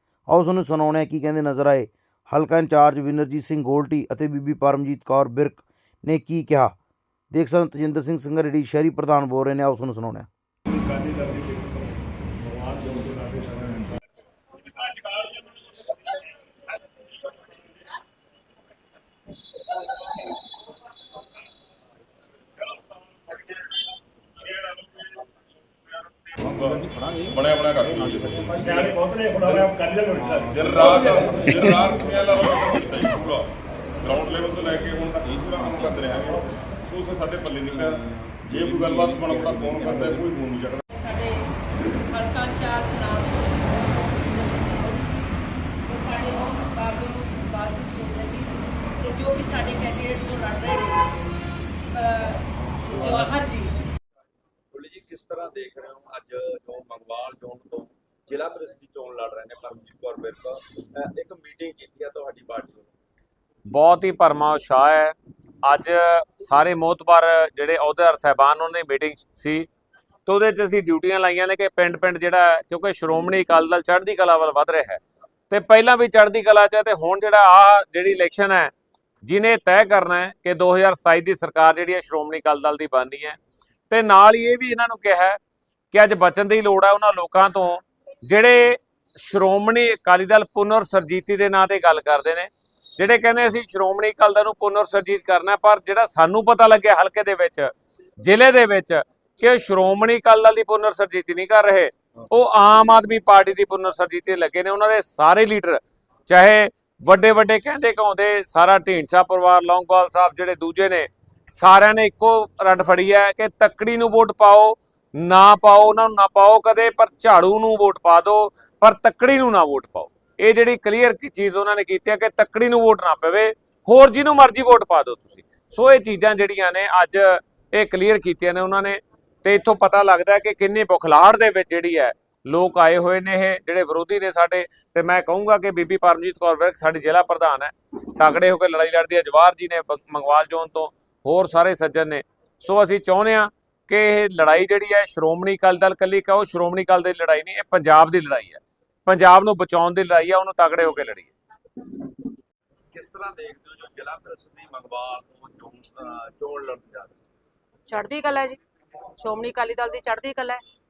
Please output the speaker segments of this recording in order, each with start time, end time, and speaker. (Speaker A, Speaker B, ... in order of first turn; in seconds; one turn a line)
Speaker A: 0.3-6.7
Speaker A: 7.3-10.3
Speaker B: 10.7-11.8
Speaker B: 12.6-14.0
Speaker B: 14.8-15.3
Speaker C: 26.4-29.7
Speaker B: 28.5-31.5
Speaker C: 30.5-33.5
Speaker C: 34.0-40.8
Speaker D: 40.9-41.4
Speaker D: 42.1-45.3
Speaker D: 45.9-51.1
Speaker D: 51.9-53.7
Speaker E: 54.7-62.9
Speaker F: 63.7-69.7
Speaker F: 70.3-78.7
Speaker F: 79.2-83.4
Speaker F: 83.9-85.4
Speaker F: 85.9-151.3
Speaker E: 152.9-157.2
Speaker D: 157.9-158.6
Speaker D: 159.2-160.6